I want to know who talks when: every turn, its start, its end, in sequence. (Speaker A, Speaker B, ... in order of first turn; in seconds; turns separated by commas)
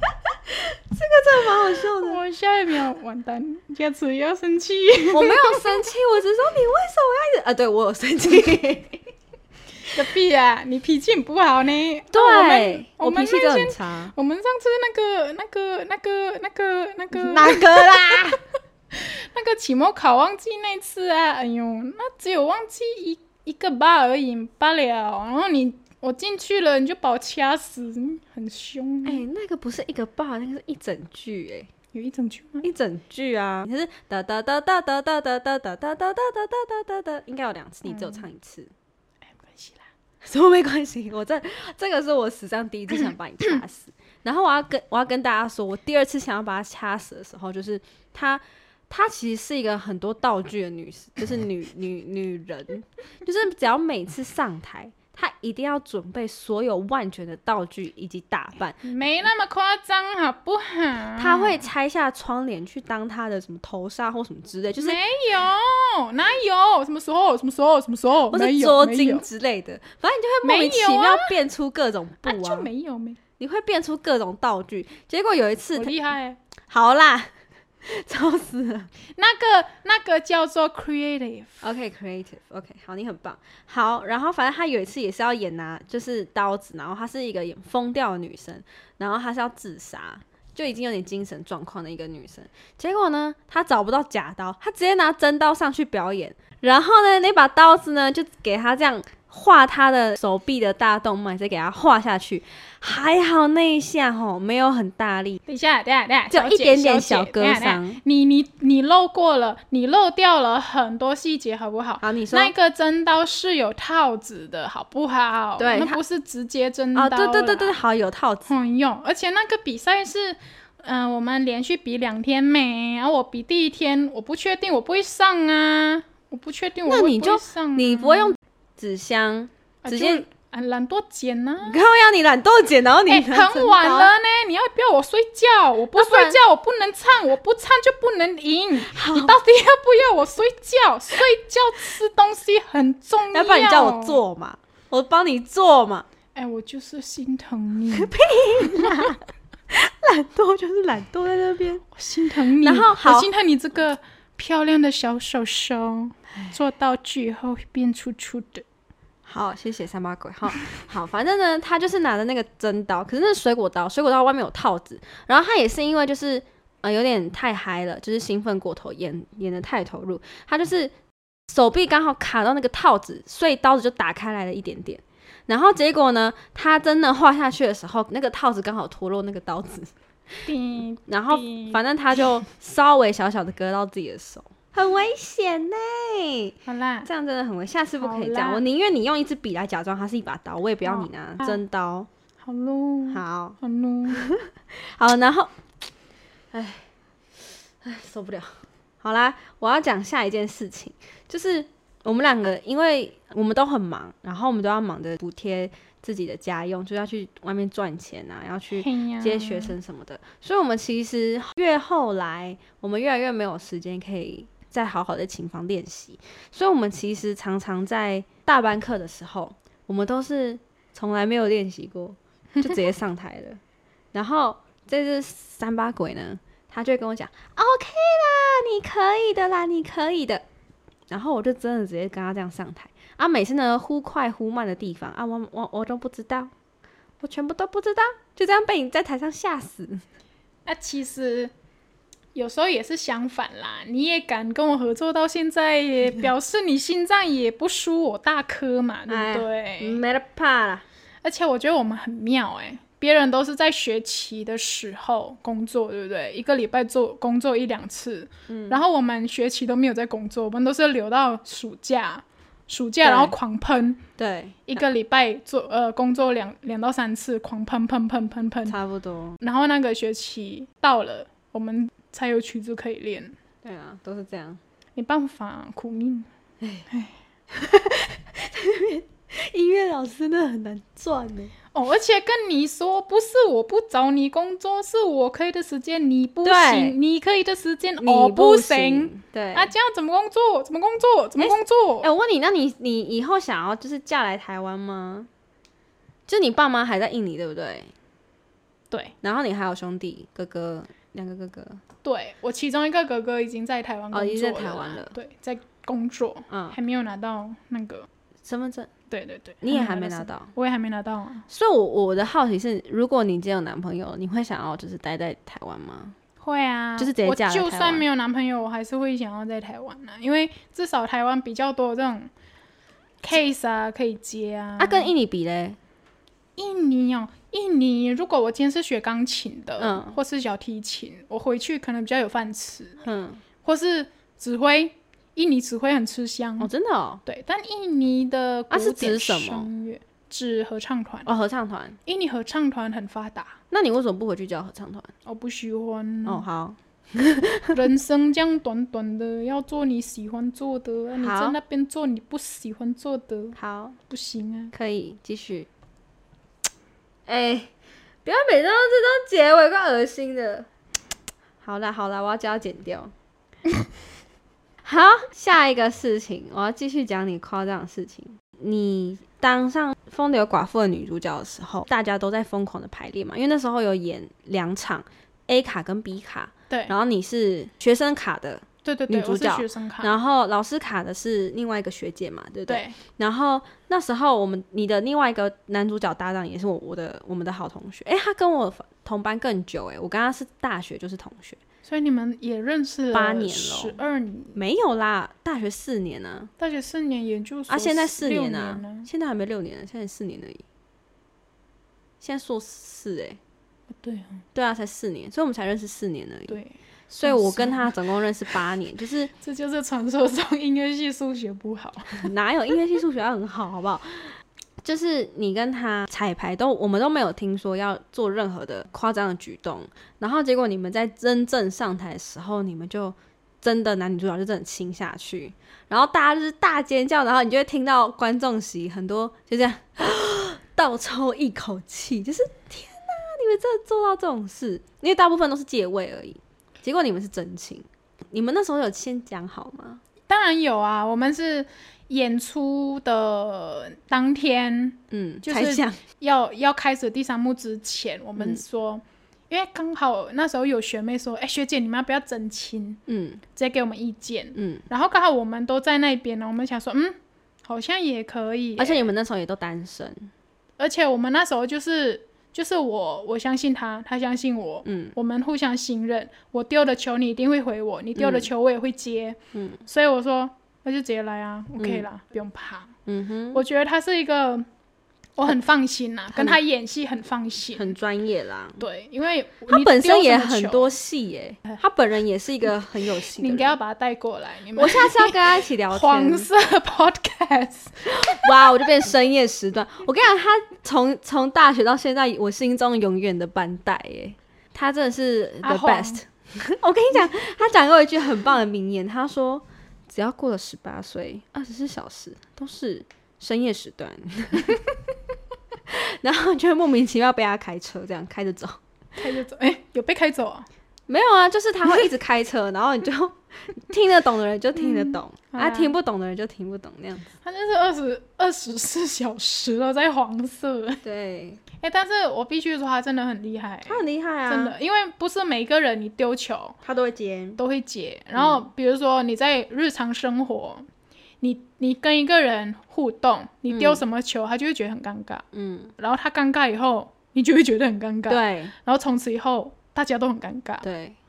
Speaker A: 0.6-2.2, Speaker B: 1.9-5.8, Speaker A: 5.1-9.0, Speaker B: 9.9-18.4, Speaker A: 12.1-14.1, Speaker A: 17.1-18.4, Speaker B: 18.9-29.2, Speaker A: 29.1-31.7, Speaker B: 31.9-32.7, Speaker A: 32.6-38.7, Speaker B: 37.9-38.2, Speaker B: 39.3-39.9, Speaker A: 40.2-58.9, Speaker B: 58.8-61.6, Speaker A: 61.2-65.0, Speaker B: 64.8-69.3, Speaker A: 68.3-72.7, Speaker B: 70.4-71.4, Speaker B: 72.2-73.2, Speaker A: 73.4-76.0, Speaker B: 75.8-76.4, Speaker A: 76.7-77.3, Speaker A: 77.8-78.9, Speaker B: 79.2-81.6, Speaker A: 81.6-105.4, Speaker B: 105.5-117.8, Speaker A: 106.3-108.0, Speaker A: 112.0-112.5, Speaker A: 115.6-116.0, Speaker A: 117.0-118.5, Speaker B: 118.5-128.4, Speaker A: 126.9-130.2, Speaker B: 129.8-131.8, Speaker A: 131.6-134.1, Speaker B: 133.1-144.2, Speaker A: 135.9-136.4, Speaker A: 138.9-139.3, Speaker A: 143.3-146.1, Speaker B: 146.3-148.1, Speaker A: 147.9-149.2, Speaker A: 149.7-151.9, Speaker B: 151.9-158.7, Speaker A: 152.6-153.3, Speaker A: 159.3-170.9, Speaker A: 171.5-179.9, Speaker B: 180.5-181.8, Speaker A: 181.1-192.1, Speaker B: 186.7-187.1, Speaker B: 188.0-188.6, Speaker B: 190.8-191.6, Speaker B: 192.4-194.2, Speaker A: 193.1-193.6, Speaker A: 194.1-195.5, Speaker A: 196.5-196.9, Speaker A: 197.8-223.6, Speaker B: 208.8-209.8, Speaker A: 224.1-230.4, Speaker A: 231.1-236.5, Speaker A: 237.2-240.0, Speaker B: 240.7-241.5, Speaker B: 242.3-250.0, Speaker A: 249.1-250.8, Speaker B: 251.2-264.0, Speaker A: 258.5-258.8, Speaker A: 263.0-263.4, Speaker A: 264.2-264.8, Speaker B: 264.7-268.8, Speaker A: 268.7-269.4, Speaker B: 269.4-273.4, Speaker A: 273.6-274.6, Speaker B: 275.0-276.3, Speaker A: 276.6-276.9, Speaker A: 277.5-281.5, Speaker B: 281.7-292.1, Speaker A: 286.4-287.0, Speaker A: 288.0-289.7, Speaker A: 291.4-295.3, Speaker A: 296.3-297.9, Speaker A: 299.2-301.8, Speaker B: 302.0-308.1, Speaker A: 304.1-305.1, Speaker A: 306.5-306.8, Speaker A: 308.4-308.9, Speaker B: 309.1-311.4, Speaker A: 309.6-310.5, Speaker A: 311.5-316.2, Speaker B: 316.4-322.3, Speaker A: 317.0-318.1, Speaker B: 323.2-325.1, Speaker A: 324.8-325.8, Speaker B: 326.6-333.0, Speaker A: 329.8-330.2, Speaker A: 333.0-333.4, Speaker B: 333.6-336.7, Speaker A: 336.6-337.2, Speaker B: 337.3-341.3, Speaker A: 338.7-339.7, Speaker A: 341.3-342.0, Speaker B: 342.1-343.6, Speaker A: 343.7-345.1, Speaker B: 345.3-346.4, Speaker A: 346.2-347.8, Speaker B: 347.7-353.6, Speaker A: 351.2-351.6, Speaker A: 353.6-354.0, Speaker B: 354.1-354.7, Speaker A: 354.7-355.7, Speaker A: 357.3-357.7, Speaker A: 358.2-360.7, Speaker A: 361.6-363.1, Speaker A: 364.8-391.6, Speaker B: 378.8-380.1, Speaker B: 382.7-383.0, Speaker B: 391.9-394.6, Speaker A: 393.1-394.0, Speaker A: 394.6-396.5, Speaker B: 396.6-399.1, Speaker A: 397.7-400.6, Speaker A: 402.2-403.4, Speaker B: 404.0-404.4, Speaker A: 404.6-406.6, Speaker B: 406.5-407.9, Speaker A: 407.1-409.3, Speaker B: 409.4-412.3, Speaker A: 412.1-440.0, Speaker B: 440.3-459.1, Speaker A: 445.1-446.0, Speaker A: 448.4-448.6, Speaker A: 453.1-453.4, Speaker A: 454.6-454.8, Speaker A: 458.8-460.3, Speaker B: 460.8-472.9, Speaker A: 464.9-465.1, Speaker A: 468.2-468.5, Speaker A: 469.5-469.8, Speaker A: 471.8-472.1, Speaker A: 473.1-473.6, Speaker B: 473.5-474.7, Speaker B: 475.4-477.9, Speaker A: 477.7-478.8, Speaker B: 478.8-481.0, Speaker A: 479.7-483.8, Speaker B: 483.2-488.0, Speaker A: 484.7-486.5, Speaker A: 488.1-504.8, Speaker B: 495.6-496.2, Speaker A: 505.9-508.8, Speaker B: 509.2-510.7, Speaker A: 511.1-517.3, Speaker B: 514.8-516.0, Speaker B: 517.4-521.0, Speaker A: 521.0-521.6, Speaker B: 521.7-526.8, Speaker A: 523.9-524.7, Speaker A: 526.8-527.6, Speaker B: 527.6-530.9, Speaker A: 528.4-528.6, Speaker B: 531.4-535.4, Speaker A: 533.7-534.0, Speaker A: 535.5-535.9, Speaker B: 536.0-540.9, Speaker A: 538.3-538.7, Speaker A: 540.8-541.2